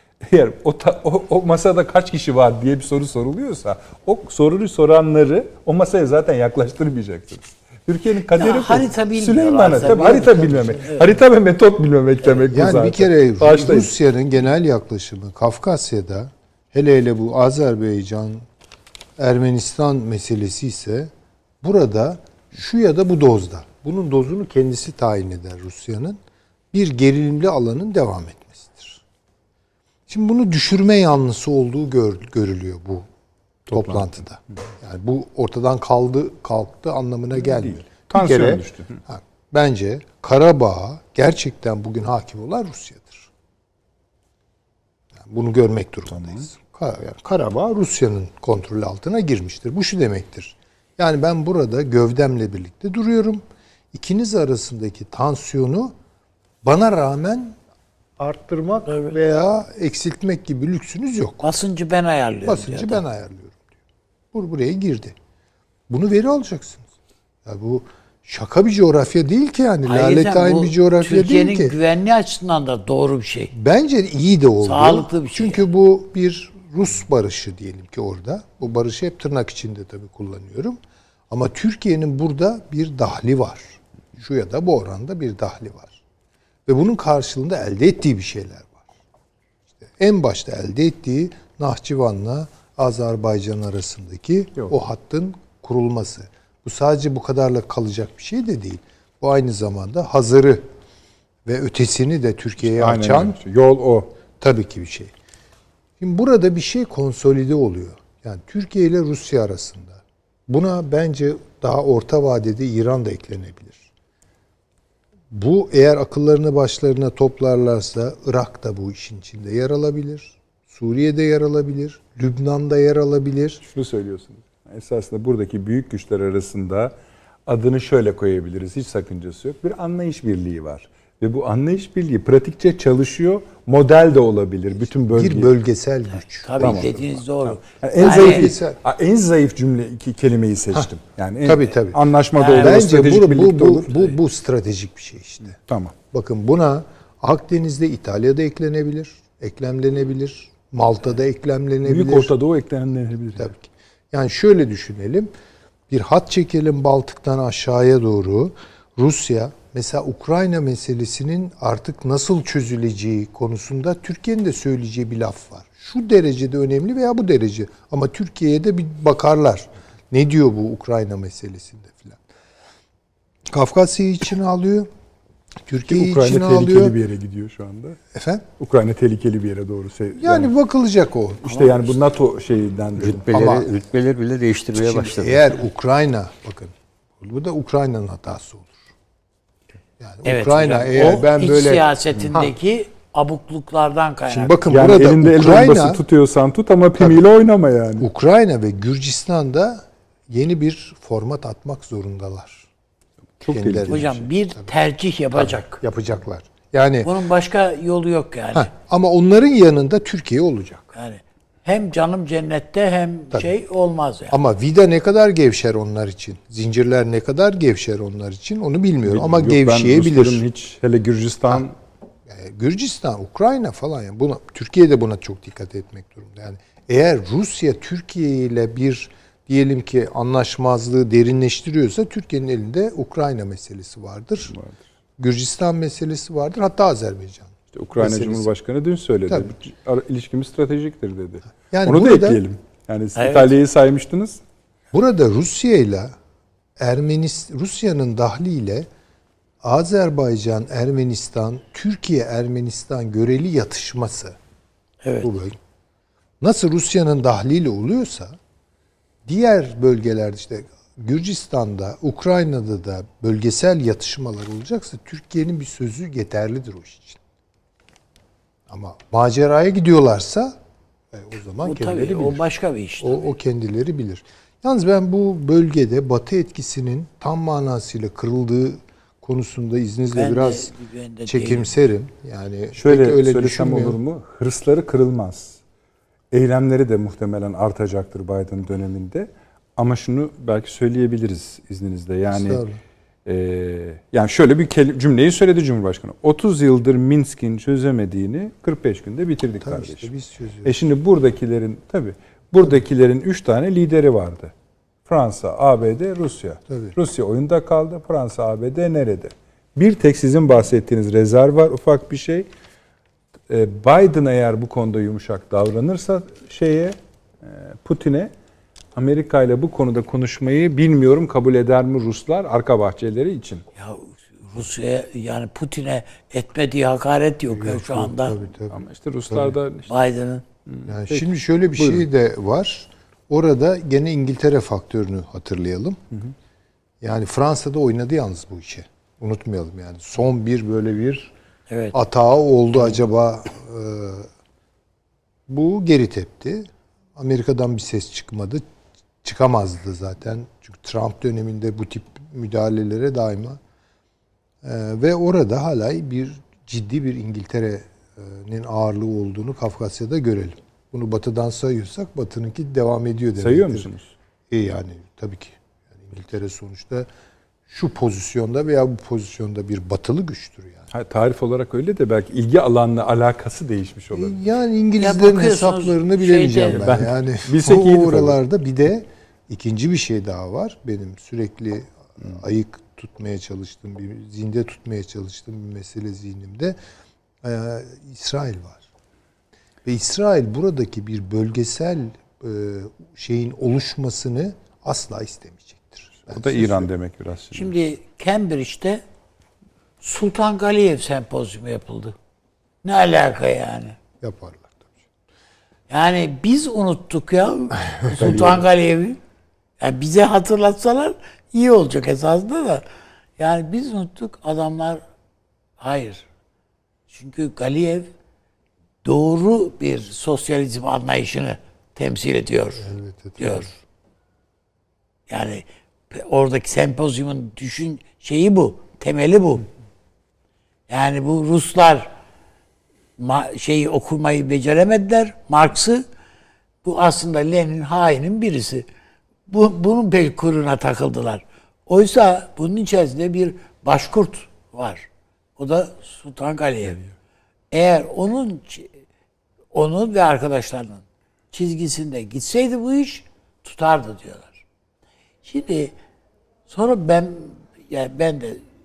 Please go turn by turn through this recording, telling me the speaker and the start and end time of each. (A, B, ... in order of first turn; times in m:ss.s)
0:00.2-0:13.9 A
0:08.3-0:11.1 B
0:10.0-0:10.2 C
0:12.5-0:18.4 C
0:19.2-0:26.2 C
0:26.7-0:29.0 C
0:30.1-0:33.1 C
0:33.7-0:34.2 A
0:33.7-0:43.3 C
0:37.4-0:39.0 A
0:45.2-0:55.9 C
0:46.1-0:46.4 A
0:56.6-0:57.6 C
0:58.2-1:01.5 C
0:58.9-0:59.2 B
1:01.4-1:03.0 B
1:02.4-1:03.6 C
1:04.3-1:05.2 C
1:05.9-1:06.9 C
1:07.4-1:11.7 C
1:09.9-1:13.5 B
1:13.5-1:20.8 C
1:14.6-1:15.7 B
1:21.3-1:26.0 C
1:26.7-1:28.8 C
1:29.8-1:40.6 C
1:41.4-1:43.4 C
1:42.6-1:44.1 A
1:44.4-1:45.1 C
1:46.0-1:53.9 C
1:55.3-2:03.6 C
2:03.6-2:06.9 A
2:07.4-2:15.5 A
2:14.8-2:17.2 C
2:16.2-2:18.5 B
2:16.6-2:16.9 A
2:17.4-2:24.2 A
2:18.0-2:18.8 C
2:21.4-2:25.6 C
2:22.4-2:22.8 B
2:25.7-2:26.0 A
2:26.1-2:32.3 C
2:31.8-2:33.5 A
2:33.4-2:35.3 C
2:35.9-2:52.2 C
2:53.5-2:54.9 C
2:55.7-2:57.0 C
2:55.9-2:58.0 A
2:58.1-2:58.4 C
2:58.6-3:00.5 A
3:00.2-3:02.0 C
3:01.4-3:03.6 A
3:03.0-3:03.7 C
3:03.0-3:05.4 D
3:04.8-3:08.8 C
3:10.0-3:12.5 C
3:10.2-3:14.6 B
3:14.3-3:16.0 C
3:14.7-3:18.1 A
3:18.0-3:22.7 C
3:23.4-3:24.1 A
3:23.5-3:24.7 C
3:23.9-3:25.8 B
3:25.5-3:27.1 C
3:27.0-3:28.7 B
3:28.5-3:30.9 C
3:30.9-3:34.4 B
3:34.3-3:40.4 C
3:39.0-3:41.7 A
3:42.3-3:54.5 C
3:54.4-3:54.8 A
3:55.2-3:58.5 C
3:57.7-4:04.4 A
4:01.7-4:02.4 C
4:03.2-4:03.5 B
4:04.9-4:06.2 C
4:06.8-4:08.9 C
4:09.6-4:14.4 C
4:15.0-4:15.3 B
4:15.2-4:15.6 C
4:16.4-4:18.4 C
4:19.3-4:27.2 C
4:28.7-4:30.6 C
4:31.1-4:32.4 C
4:31.6-4:33.2 B
4:33.0-4:40.7 C
4:40.1-4:41.7 B
4:41.3-4:44.0 C
4:42.7-4:45.6 A
4:46.3-4:52.6 A
4:52.3-4:52.8 C
4:53.3-5:00.1 A
4:59.6-5:00.7 C
5:00.6-5:04.5 A
5:05.1-5:12.5 A
5:06.7-5:07.0 C
5:13.5-5:18.3 A
5:19.0-5:23.6 A
5:23.8-5:28.4 B
5:27.5-5:28.8 C
5:28.7-5:29.9 A
5:29.9-5:30.4 B
5:30.7-5:32.1 A
5:30.9-5:36.0 C
5:37.0-5:41.3 C
5:41.7-5:42.0 B
5:41.9-5:44.3 C
5:45.5-5:48.6 C
5:49.2-5:53.6 C
5:54.6-6:03.9 C
6:03.4-6:04.1 A
6:04.5-6:07.1 C
6:07.7-6:10.8 C
6:10.9-6:14.4 A
6:14.1-6:26.8 C
6:15.0-6:17.0 B
6:16.7-6:18.4 A
6:27.4-6:28.9 C
6:29.8-6:36.9 C
6:36.3-6:37.7 A
6:37.5-6:39.0 B
6:40.0-6:42.2 B
6:42.8-6:44.0 B
6:44.2-6:44.8 C
6:45.9-6:49.2 B
6:48.2-6:48.6 A
6:49.8-6:52.8 B
6:53.4-6:55.0 B
6:55.8-6:56.3 B
6:57.1-6:58.1 B
6:59.0-7:03.7 B
7:02.8-7:03.7 C
7:05.3-7:09.6 B
7:10.9-7:12.1 B
7:13.2-7:16.0 B
7:16.8-7:18.9 B
7:19.5-7:27.0 B
7:27.7-7:28.9 B
7:29.7-7:34.6 B
7:35.4-7:35.9 B
7:36.7-7:38.6 B